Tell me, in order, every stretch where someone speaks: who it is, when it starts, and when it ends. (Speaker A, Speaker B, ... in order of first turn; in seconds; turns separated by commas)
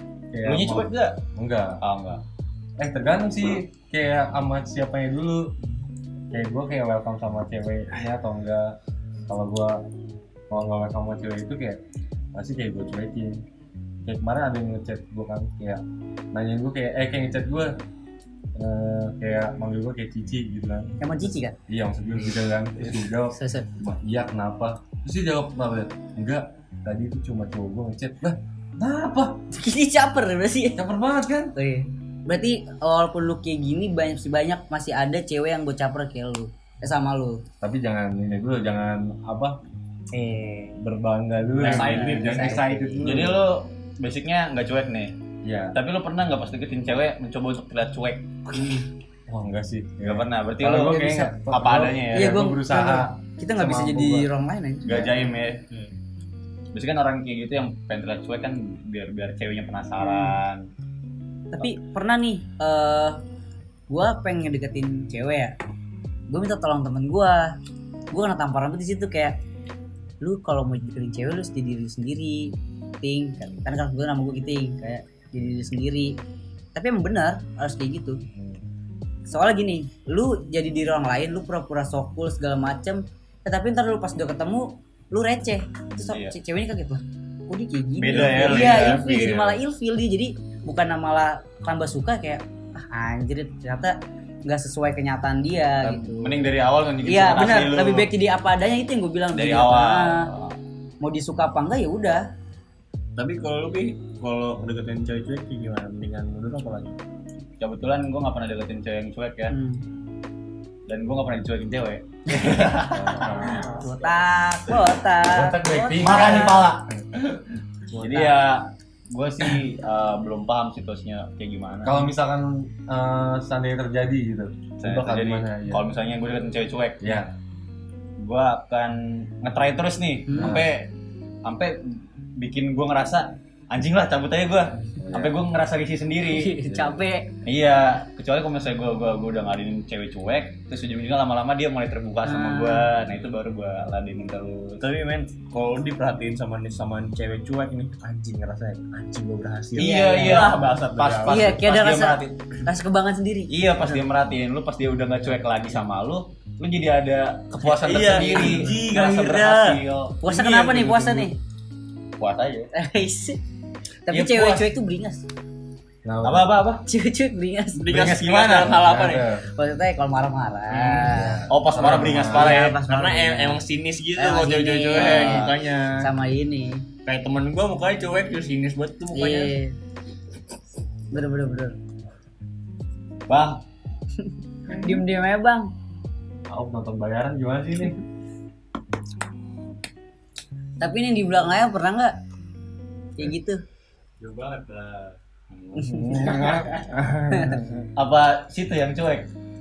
Speaker A: 0.3-1.8, Speaker B: 0.5-1.2, Speaker B: 1.8-2.2, Speaker A: 2.8-5.5, Speaker A: 6.3-8.8, Speaker A: 9.3-9.8, Speaker A: 10.5-11.8, Speaker A: 12.3-13.4, Speaker A: 14.0-17.7, Speaker A: 18.6-21.0, Speaker C: 21.0-21.6, Speaker A: 21.7-29.4, Speaker C: 23.3-23.7, Speaker C: 29.5-30.8, Speaker A: 30.8-31.5, Speaker C: 31.6-37.4, Speaker A: 37.6-39.6, Speaker C: 40.1-40.8, Speaker A: 40.8-43.4, Speaker C: 41.6-43.3, Speaker B: 41.7-45.1, Speaker A: 45.4-45.8, Speaker B: 45.7-48.5, Speaker A: 49.3-54.3, Speaker B: 50.0-52.4, Speaker C: 52.1-55.1, Speaker B: 54.8-55.6, Speaker B: 56.7-60.7, Speaker C: 60.0-60.4, Speaker C: 61.5-63.2, Speaker C: 63.9-65.5, Speaker C: 66.3-67.5, Speaker C: 68.1-69.4, Speaker C: 70.2-76.2, Speaker C: 76.8-78.2, Speaker A: 78.3-78.6, Speaker C: 79.3-96.4, Speaker B: 86.0-86.3, Speaker B: 88.0-89.5, Speaker D: 88.1-89.3, Speaker B: 95.8-98.1, Speaker C: 97.0-100.3, Speaker B: 99.3-100.6, Speaker C: 101.0-102.2, Speaker D: 103.2-107.0, Speaker B: 107.6-109.5, Speaker C: 109.5-109.8, Speaker B: 110.9-113.3, Speaker C: 112.3-112.7, Speaker A: 112.8-113.8, Speaker C: 113.4-116.7, Speaker D: 113.8-114.2, Speaker A: 115.3-116.7, Speaker B: 116.0-116.9, Speaker B: 118.0-122.0, Speaker A: 121.8-125.8, Speaker B: 124.8-127.2, Speaker A: 127.0-127.3, Speaker B: 128.2-130.9, Speaker C: 130.3-130.6, Speaker A: 130.4-130.7, Speaker B: 131.4-136.6, Speaker A: 135.0-135.4, Speaker C: 136.3-137.3, Speaker A: 136.7-137.0, Speaker B: 137.4-144.8, Speaker C: 142.2-142.9, Speaker D: 144.8-151.6, Speaker C: 149.8-150.6, Speaker B: 149.8-152.6, Speaker C: 151.2-154.0, Speaker B: 153.5-160.2, Speaker A: 157.7-158.7, Speaker D: 157.7-161.3, Speaker C: 160.2-161.4, Speaker B: 162.2-162.7, Speaker C: 162.7-163.4, Speaker C: 164.1-165.2, Speaker B: 164.1-164.7, Speaker A: 166.1-166.6, Speaker B: 166.2-166.8, Speaker C: 166.9-167.8, Speaker D: 167.7-169.3, Speaker B: 167.9-168.8, Speaker A: 168.7-169.5, Speaker C: 169.5-171.5, Speaker D: 170.7-176.1, Speaker A: 171.1-172.7, Speaker B: 171.5-172.8, Speaker C: 172.1-173.6, Speaker C: 174.2-176.9, Speaker B: 174.9-175.6, Speaker D: 177.0-179.6, Speaker C: 179.1-179.8, Speaker C: 181.1-181.8, Speaker B: 183.3-183.6, Speaker C: 184.2-185.7, Speaker A: 186.5-188.0, Speaker C: 190.8-192.2, Speaker C: 193.2-193.6, Speaker B: 194.2-195.7, Speaker C: 195.8-196.3, Speaker A: 195.8-197.9, Speaker D: 196.2-196.6, Speaker C: 197.3-197.6, Speaker B: 198.0-199.3